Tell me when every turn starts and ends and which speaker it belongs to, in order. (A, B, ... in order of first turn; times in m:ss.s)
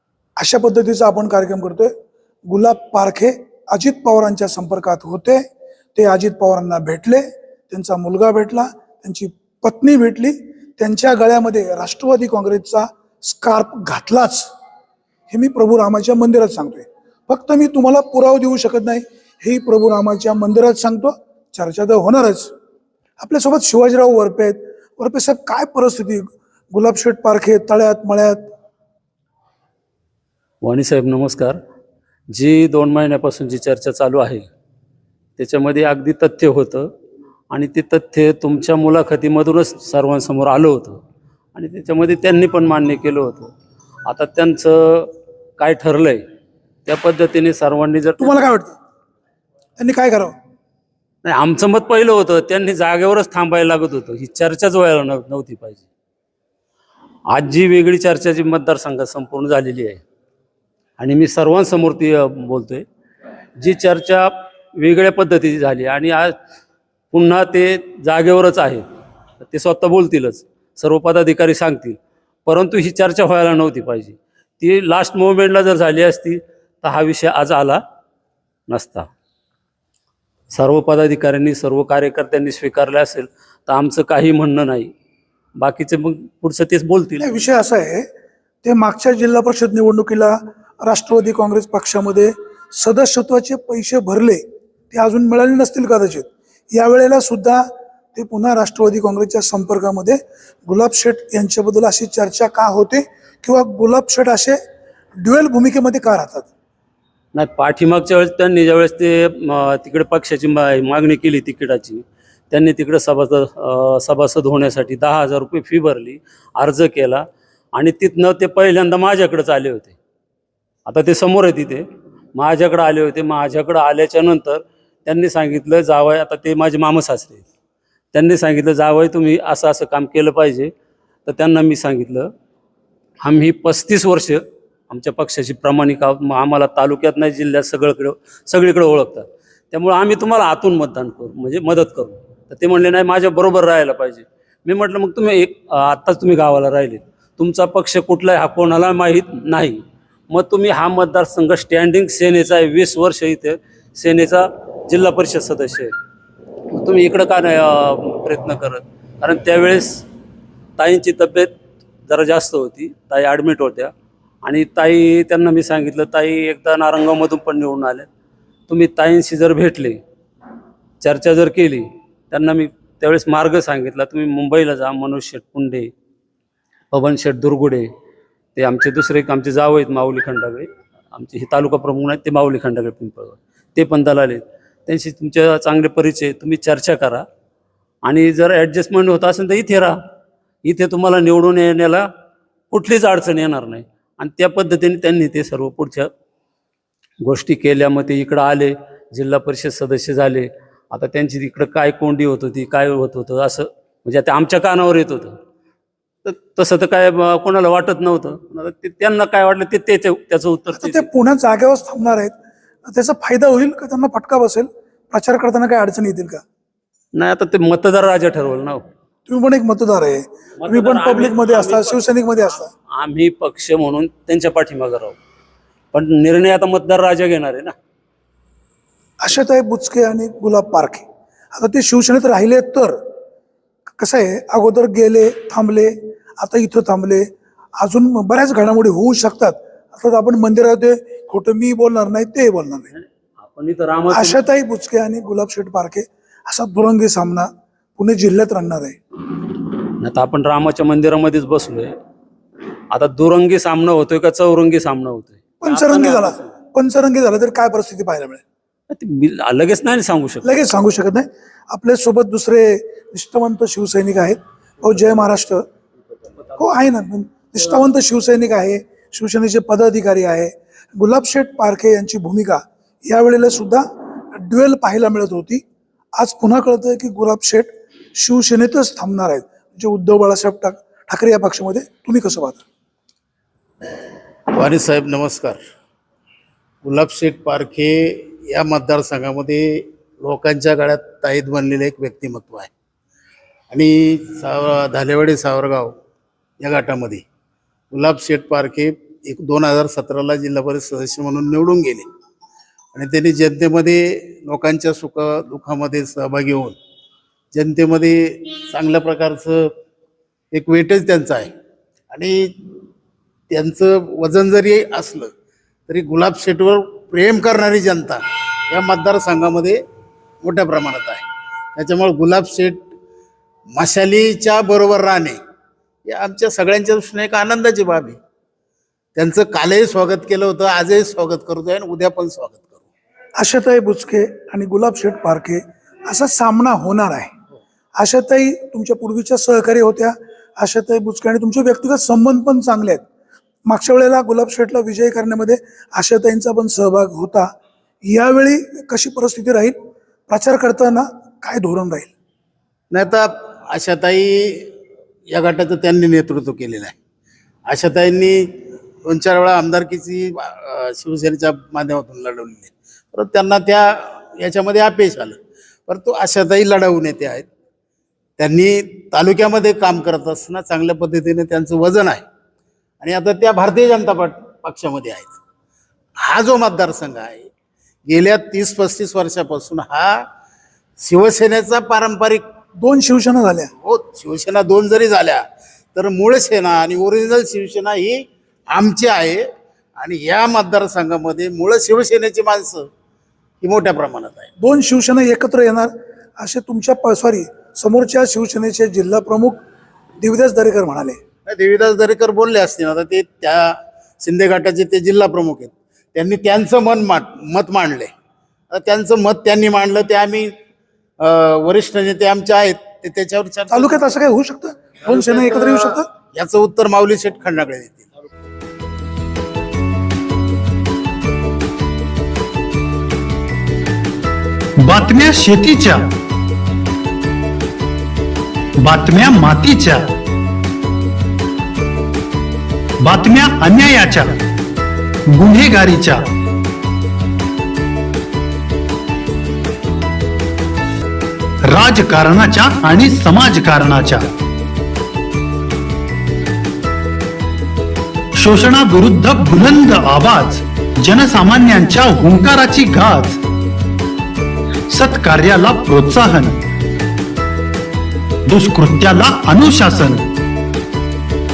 0:00.4-0:01.9 A
0:02.5-0:05.4 A
0:05.9-0:14.5 A
0:15.3-0:22.5 A
0:23.2-0:28.4 A
0:30.6-0:31.6 B
0:32.3-0:34.5 B
0:35.4-0:36.9 B
0:37.5-0:41.0 B
0:41.5-0:43.5 B
0:44.0-0:46.2 B
0:46.8-0:48.4 B
0:48.2-0:48.7 A
0:49.8-0:50.3 A
0:51.2-0:55.9 B
0:57.3-1:00.0 B
1:01.0-1:02.8 B
1:03.6-1:06.3 B
1:07.1-1:08.8 B
1:09.4-1:17.8 B
1:18.7-1:19.1 B
1:20.5-1:24.9 B
1:25.6-1:27.4 B
1:27.2-1:28.1 A
1:28.6-1:37.6 A
1:38.1-1:44.6 A
1:45.2-1:46.5 A
1:47.3-2:00.0 B
2:00.8-2:07.5 B
2:08.1-2:10.7 B
2:11.2-2:12.3 B
2:13.2-2:35.9 B
2:36.7-2:40.0 B
2:40.8-2:41.5 B
2:42.1-2:43.9 B
2:44.4-2:48.1 B
2:48.7-2:50.0 B
2:51.0-2:55.9 B
2:56.9-2:57.9 B
2:58.6-3:07.2 B
3:08.0-3:10.0 B
3:10.6-3:12.1 B
3:12.7-3:16.1 B
3:17.2-3:25.4 B
3:26.2-3:31.1 B
3:30.8-3:32.3 A
3:32.8-3:36.4 A
3:37.1-3:38.8 B
3:39.3-3:42.7 A
3:40.6-3:45.2 B
3:45.9-3:47.7 B
3:49.2-3:53.0 A
3:54.0-3:57.2 A
3:57.8-4:02.9 A
4:02.9-4:04.4 B
4:04.1-4:09.0 A
4:10.0-4:11.9 B
4:12.9-4:16.5 B
4:15.6-4:18.4 A
4:18.9-4:20.6 B
4:20.4-4:25.6 A
4:26.6-4:35.6 A
4:36.2-4:42.6 A
4:44.5-4:45.6 C
4:46.8-4:52.7 C
4:53.7-4:55.9 C
4:56.6-4:57.2 C
4:57.9-5:02.1 C
5:02.9-5:06.8 C
5:07.5-5:09.7 C
5:10.5-5:11.5 C
5:12.1-5:12.4 C
5:13.5-5:15.3 C
5:15.9-5:19.8 C
5:20.4-5:22.9 C
5:23.7-5:25.4 C
5:26.0-5:28.2 C
5:29.2-5:32.8 C
5:33.4-5:37.3 A
5:38.0-5:43.0 A
5:43.7-5:47.5 A
5:48.0-5:49.8 A
5:50.3-5:52.1 A
5:52.9-5:54.7 C
5:55.3-5:57.0 C
5:57.7-6:07.5 C
6:08.4-6:12.2 C
6:13.0-6:15.4 C
6:16.2-6:17.5 C
6:18.1-6:20.2 C
6:21.0-6:22.4 C
6:22.8-6:23.7 A
6:23.8-6:25.4 C
6:25.9-6:29.4 C
6:30.0-6:32.9 C
6:33.6-6:34.5 C
6:34.6-6:39.6 A
6:40.2-6:41.2 A
6:41.4-6:48.1 C
6:48.7-6:50.5 C
6:51.2-6:54.1 C
6:53.7-6:56.1 A
6:55.0-6:58.1 C
7:04.8-7:06.1 D
7:08.8-7:10.1 D
7:13.0-7:14.4 D
7:15.3-7:16.3 D
7:21.6-7:24.3 D
7:28.4-7:33.4 D
7:34.9-7:36.6 D
7:38.5-7:40.2 D